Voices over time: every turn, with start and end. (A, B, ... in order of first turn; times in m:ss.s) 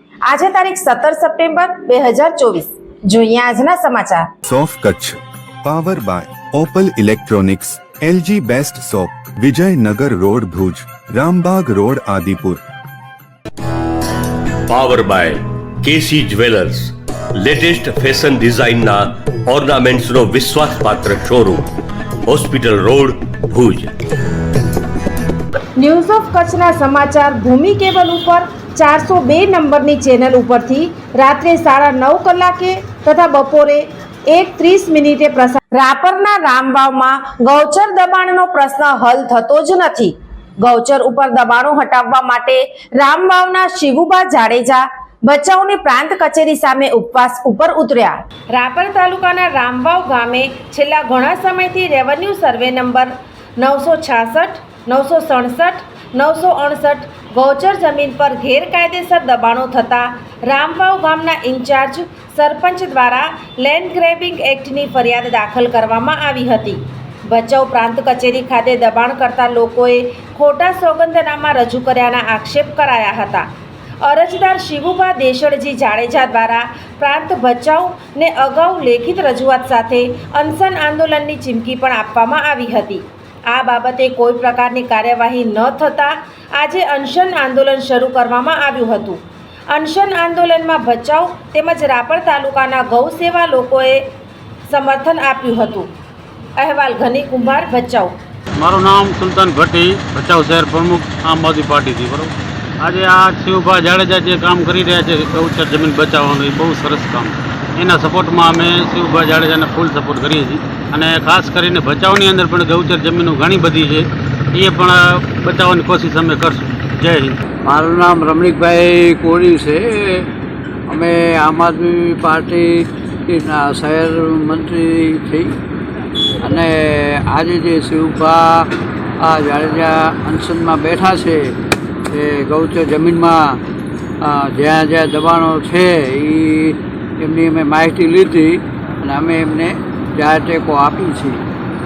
0:00.3-0:04.3 A
0:04.4-0:12.6 B
0:14.7-0:21.7 C
0:22.2-0:23.9 C
0:25.8-1:13.5 A
1:14.0-1:34.0 A
1:34.7-1:35.9 A
1:36.6-1:38.1 A
1:38.6-1:42.3 D
1:42.8-1:57.3 D
1:57.6-2:00.3 E
2:00.9-2:05.6 E
2:06.4-2:08.7 E
2:09.2-2:11.5 E
2:12.1-2:13.6 E
2:14.2-2:21.4 E